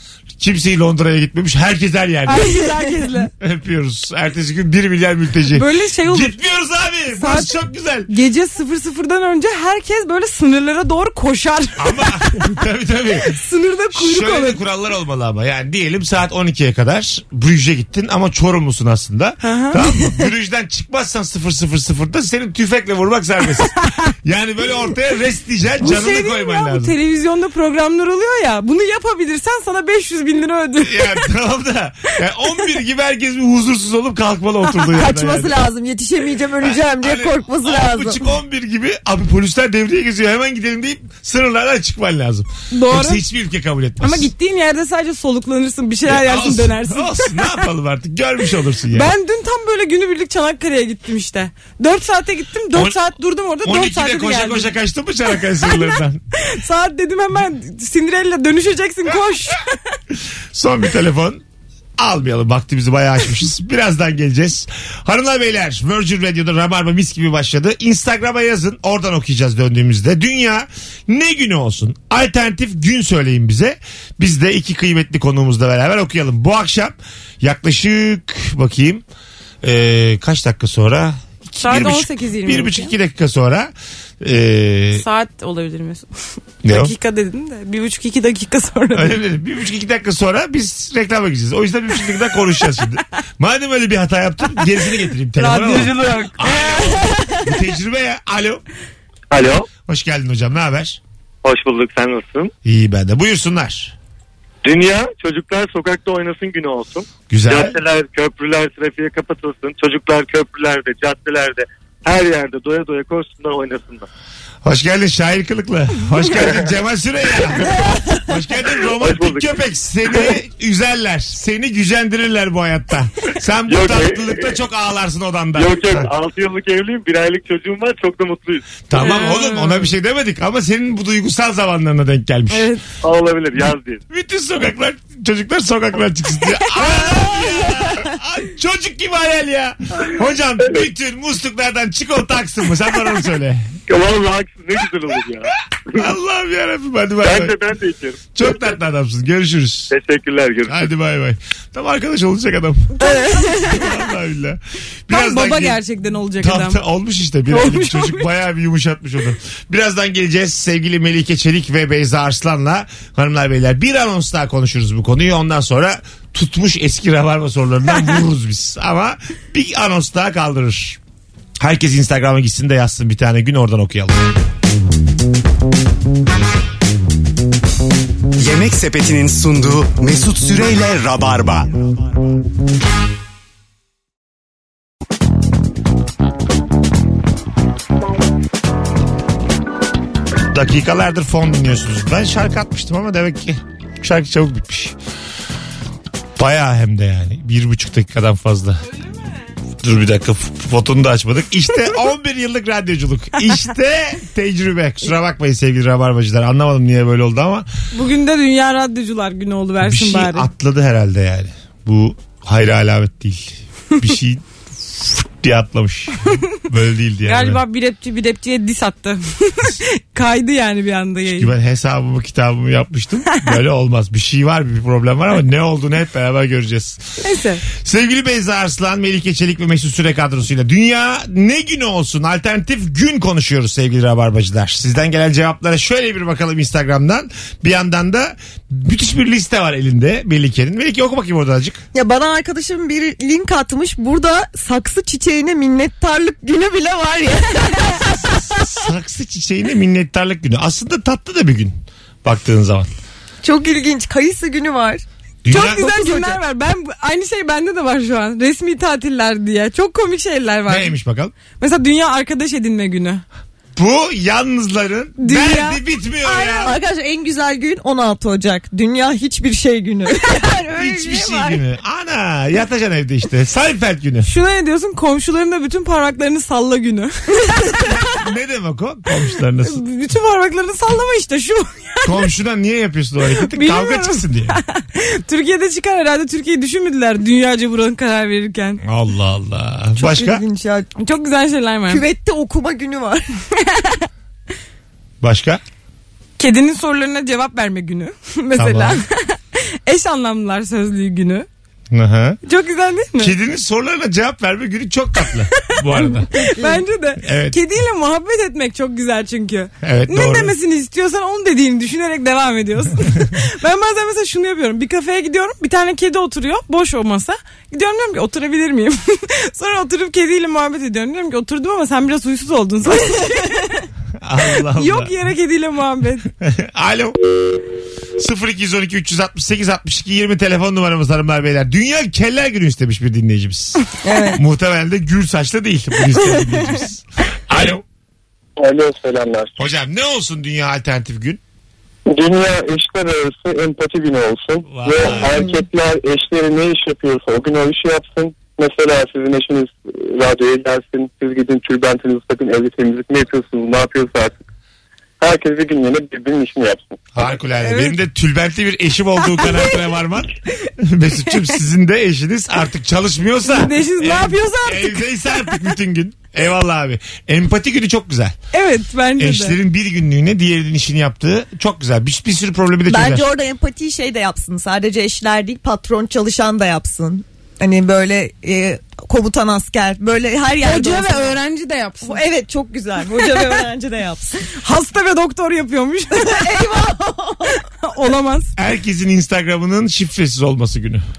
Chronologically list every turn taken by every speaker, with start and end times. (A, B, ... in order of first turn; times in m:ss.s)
0:00.4-0:02.6 A
0:02.2-0:03.3 B
0:03.4-0:08.1 A
0:05.5-0:06.3 B
0:07.1-0:07.5 B
0:08.1-0:12.4 B
0:11.8-0:13.4 A
0:13.3-0:14.6 B
0:13.9-0:26.9 A
0:19.4-0:20.2 B
0:25.8-0:31.3 B
0:30.8-0:35.5 A
0:34.9-0:38.2 C
0:36.6-0:44.3 A
0:42.7-0:43.2 B
0:44.0-0:47.4 B
0:46.0-0:49.1 A
0:48.9-0:54.7 B
0:53.6-0:56.2 A
0:55.6-0:59.7 B
1:00.5-1:01.4 A
1:02.0-1:19.0 A
1:19.6-1:25.0 A
1:21.6-1:22.9 B
1:24.9-1:26.1 B
1:26.6-1:26.9 A
1:26.6-1:29.2 B
1:28.9-1:38.6 A
1:35.4-1:37.0 B
1:39.3-1:39.7 D
1:39.8-1:41.0 A
1:41.4-1:42.5 D
1:42.6-1:43.9 A
1:44.6-1:54.1 D
1:47.3-1:47.8 A
1:54.6-2:06.1 A
1:59.0-1:59.5 D
2:03.7-2:04.5 D
2:05.5-2:08.7 D
2:08.9-2:12.7 A
2:08.9-2:09.9 B
2:12.5-2:12.8 B
2:13.0-2:14.0 D
2:14.1-2:23.7 A
2:16.9-2:17.2 B
2:23.9-2:26.0 D
2:26.0-2:27.6 A
2:27.2-2:28.5 D
2:28.3-2:29.9 A
2:29.9-2:30.8 D
2:30.7-2:33.0 A
2:33.0-2:33.8 B
2:33.0-2:33.8 C
2:33.5-2:35.8 A
2:35.1-2:36.8 B
2:36.4-2:51.0 A
2:37.5-2:38.2 B
2:51.6-2:54.2 A
2:58.4-3:01.7 E
3:10.5-3:14.9 A
3:16.4-3:18.8 A
3:19.8-3:27.7 A
3:27.9-3:30.5 B
3:29.8-3:37.6 A
3:37.2-3:41.5 B
3:41.3-3:47.0 A
3:47.2-3:47.6 B
3:47.7-4:01.8 A
4:01.9-4:08.6 C
4:08.1-4:11.7 A
4:12.2-4:12.9 A
4:13.4-4:16.4 C
4:15.4-4:15.9 A
4:15.5-4:20.9 B
4:20.7-4:21.3 A
4:21.6-4:23.2 B
4:23.8-4:26.7 A
4:25.2-4:25.8 B
4:26.2-4:31.6 C
4:30.7-4:34.3 A
4:34.2-4:37.8 B
4:37.8-4:39.8 A
4:39.6-4:42.1 B
4:42.0-4:44.6 A
4:43.4-4:48.8 B
4:48.8-4:50.4 A
4:50.0-4:50.9 C
4:51.0-4:52.0 B
4:51.9-4:53.3 C
4:53.6-4:54.0 B
4:55.2-4:55.6 A
4:56.4-5:01.5 B
4:58.6-4:59.0 A
5:01.9-5:02.4 A
5:02.4-5:03.3 B
5:03.2-5:06.5 A
5:06.4-5:06.8 C
5:06.4-5:23.8 B
5:07.2-5:07.6 A
5:09.8-5:10.5 A
5:24.2-5:25.1 A
5:24.7-5:26.3 B
5:26.4-5:27.2 A
5:28.2-5:33.8 A
5:34.0-5:34.4 C
5:34.4-5:37.8 A
5:38.6-5:39.5 F
5:39.6-5:41.4 A
5:42.1-5:54.4 F
5:44.7-5:45.4 A
5:55.2-5:57.0 F
5:57.1-6:08.4 A
5:57.6-5:58.0 B
5:59.2-5:59.7 B
6:03.5-6:05.5 B
6:08.5-6:09.6 B
6:09.2-6:13.3 A
6:12.9-6:21.4 C
6:20.6-6:22.2 B
6:22.0-6:24.5 C
6:23.2-6:23.5 B
6:24.6-6:26.6 B
6:26.1-6:27.6 C
6:27.5-6:28.5 B
6:28.6-6:31.0 A